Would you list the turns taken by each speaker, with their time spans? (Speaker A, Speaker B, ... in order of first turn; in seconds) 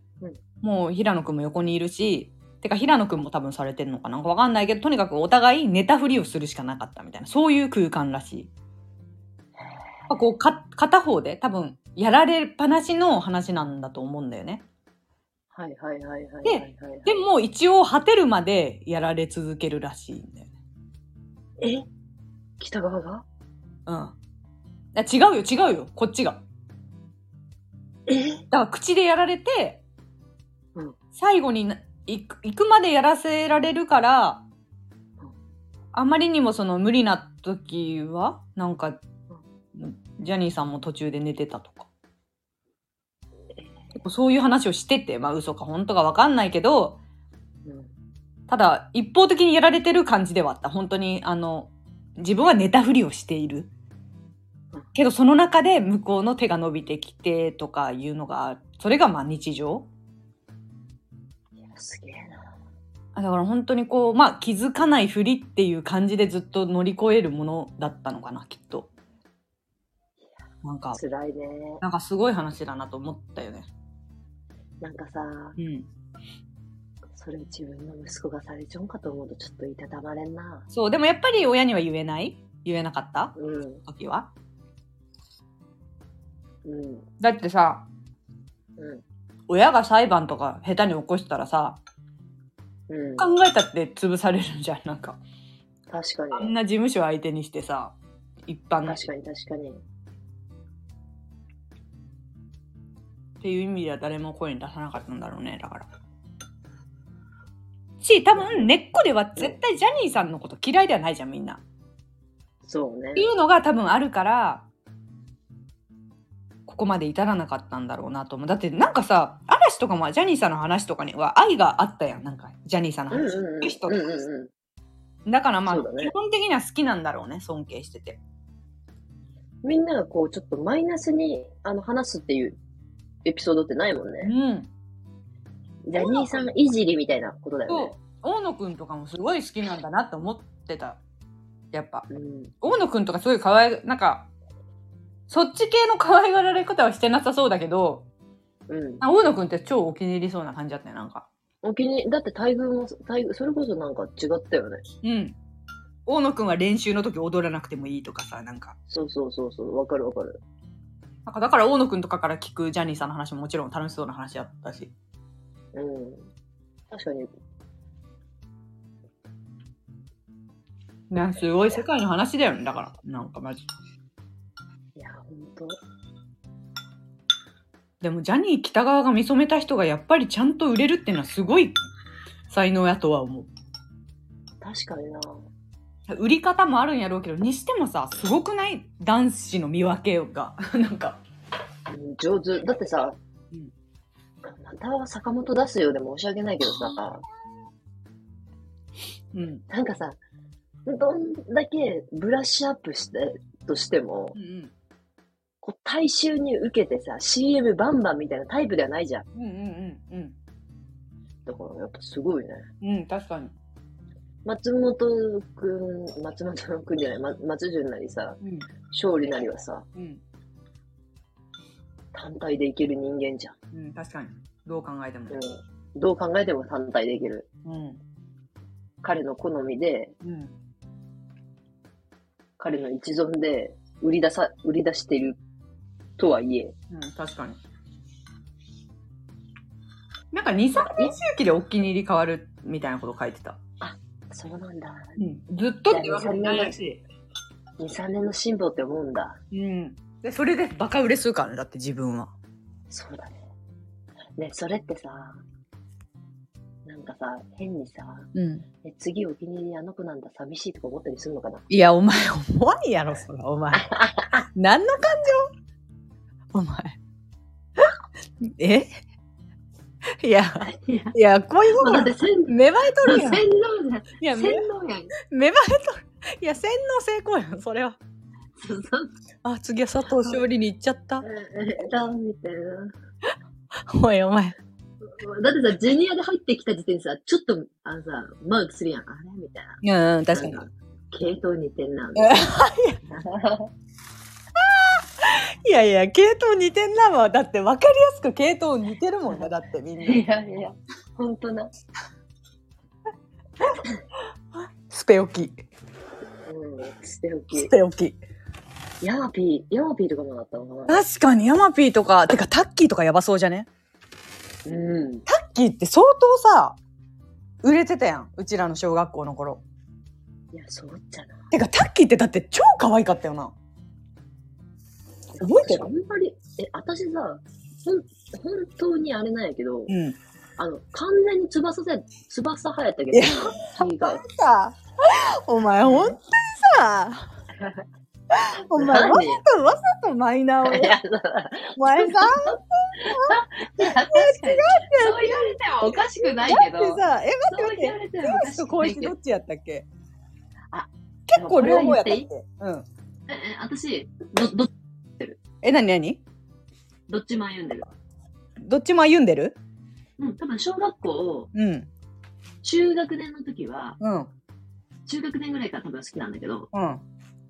Speaker A: 0.6-8.5, 10.1-14.7, 16.4-20.5, 23.9-24.2, 24.9-26.4, 28.5-29.8, 31.1-34.5, 35.9-39.0, 39.7-41.9, 44.0-47.0, 48.5-53.7, 55.0-59.9, 63.1-68.9, 70.6-71.0, 71.8-73.7, 75.6-75.9, 80.7-84.3, 87.2-87.9, 89.5-91.8, 93.2-95.2, 96.3-98.0, 98.5-99.0, 103.4-105.9, 108.0-111.6, 113.2-114.7, 116.7-124.0, 125.3-128.2, 134.2-134.7, 136.0-136.4, 137.7-141.0, 141.7-142.1, 142.6-144.3, 145.3-148.1, 149.0-151.3, 155.0-155.4, 156.1-158.8, 161.3-164.9, 171.1-173.7, 178.0-181.8, 182.5-183.5, 186.1-191.2, 199.3-199.6, 204.3-204.7, 209.3-210.3, 212.8-213.5, 219.9-220.2, 223.7-225.4, 227.7-228.0, 230.2-230.5, 236.9-237.6, 240.3-243.6, 245.2-247.0, 249.5-252.3, 258.3-258.7, 261.7-263.9, 264.5-265.5, 266.5-267.0, 268.4-268.9, 270.2-273.4, 274.2-274.7, 275.2-278.0, 279.4-281.2, 283.8-284.6, 289.8-290.6, 292.2-293.0, 294.6-300.2, 304.9-305.6, 307.5-308.2, 310.9-313.7, 315.3-316.8, 317.6-319.6, 321.5-323.5, 325.4-325.9, 329.9-330.2, 333.1-337.3, 338.3-341.0, 341.8-345.2, 345.9-349.9, 351.3-352.9, 355.6-356.2, 358.6-359.6, 361.5-361.9, 364.0-364.3, 366.7-367.0
Speaker B: 15.5-17.1, 21.6-21.9, 22.6-23.2, 28.1-28.4, 47.7-47.9, 61.6-62.5, 70.9-71.8, 74.8-75.6, 77.2-80.7, 83.4-83.8, 86.7-87.1, 88.8-89.0, 92.9-93.3, 95.9-96.5, 98.8-99.8, 108.3-108.7, 112.6-113.3, 123.1-124.5, 125.7-126.1, 129.6-132.6, 133.2-134.3, 135.9-138.0, 142.1-142.5, 148.7-149.0, 151.6-154.8, 158.9-160.4, 165.7-166.3, 166.9-167.3, 175.0-175.8, 184.6-185.5, 191.9-193.2, 194.4-197.2, 199.7-200.2, 200.9-204.4, 205.6-209.3, 211.5-212.7, 214.4-218.4, 218.9-219.9, 222.1-223.6, 225.3-227.5, 229.0-230.2, 232.6-235.4, 236.2-236.8, 240.8-241.2, 243.8-245.2, 245.9-246.8, 247.8-249.4, 252.9-253.4, 254.4-255.4, 256.9-258.3, 258.8-261.7, 263.7-264.5, 270.6-271.1, 271.7-275.1, 278.6-279.1, 281.2-282.9, 285.0-289.8, 290.3-292.5, 293.1-293.7, 300.0-301.7, 306.5-307.7, 309.0-311.0, 314.7-315.3, 320.5-321.4, 325.4-329.9, 330.6-334.2, 335.8-336.2, 337.5-337.8, 338.7-339.4, 340.6-349.1, 350.7-352.3, 353.3-355.4, 357.1-357.9, 360.2-361.5, 362.6-364.0, 365.1-366.7